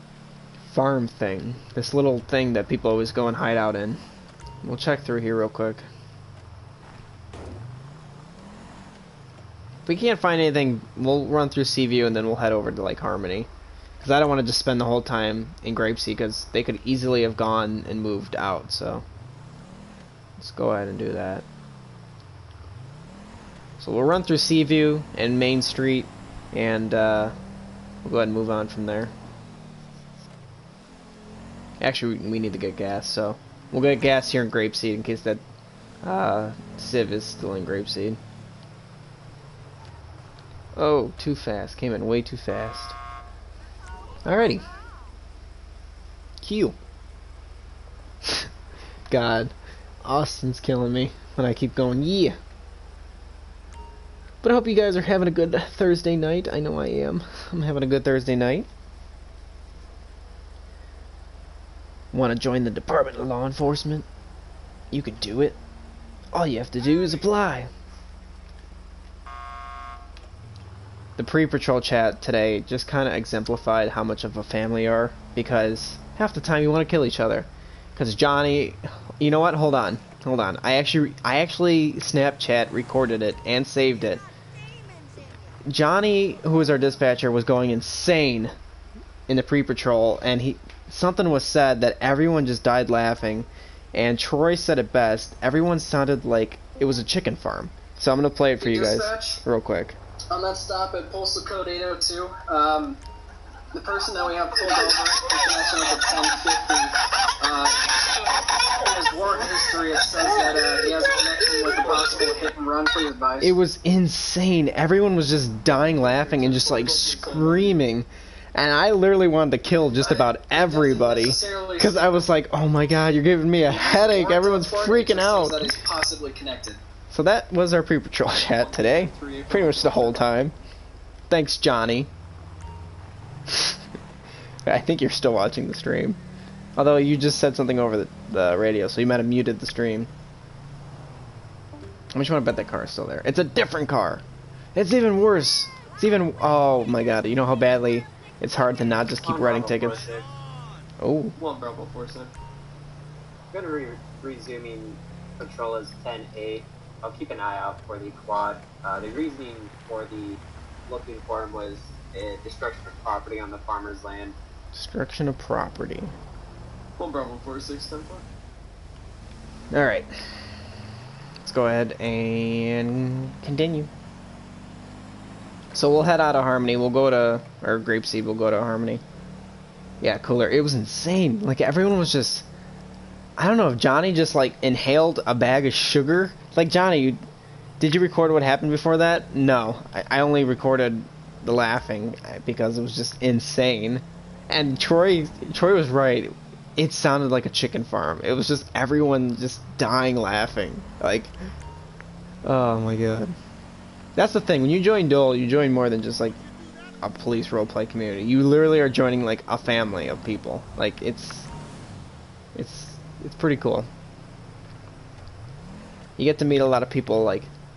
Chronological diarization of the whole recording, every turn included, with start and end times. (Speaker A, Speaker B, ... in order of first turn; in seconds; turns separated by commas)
Speaker A: 0.7-4.0, Speaker A: 4.6-5.9, Speaker A: 9.9-13.5, Speaker A: 14.0-19.1, Speaker A: 20.4-21.4, Speaker A: 23.8-27.4, Speaker A: 28.0-29.1, Speaker A: 31.8-35.4, Speaker A: 36.0-38.2, Speaker A: 40.8-43.0, Speaker A: 44.2-44.6, Speaker A: 46.4-46.8, Speaker A: 49.1-52.4, Speaker A: 54.4-58.7, Speaker A: 62.1-64.1, Speaker A: 64.9-65.6, Speaker A: 66.3-67.7, Speaker A: 71.2-84.2, Speaker A: 85.7-88.5, Speaker A: 89.3-100.0, Speaker B: 98.6-99.4, Speaker B: 100.3-103.0, Speaker B: 103.7-113.6, Speaker A: 113.4-125.7, Speaker C: 115.9-117.8, Speaker B: 120.0-122.3, Speaker B: 123.7-126.8, Speaker A: 127.1-130.5, Speaker C: 128.6-130.2, Speaker A: 131.3-132.1, Speaker A: 133.5-133.8, Speaker A: 134.7-136.2, Speaker A: 136.8-140.1, Speaker A: 142.1-144.2, Speaker A: 144.8-150.0, Speaker D: 149.2-150.2, Speaker A: 151.0-151.3, Speaker C: 151.4-152.3, Speaker D: 153.5-164.3, Speaker A: 164.7-166.1, Speaker C: 167.0-168.2, Speaker A: 169.7-170.3, Speaker A: 171.4-173.9, Speaker A: 175.7-179.0, Speaker A: 180.0-182.5, Speaker A: 183.4-187.2, Speaker A: 187.8-201.3, Speaker A: 202.4-203.3, Speaker A: 204.2-206.4, Speaker A: 207.0-211.5, Speaker A: 212.6-213.9, Speaker A: 216.2-217.5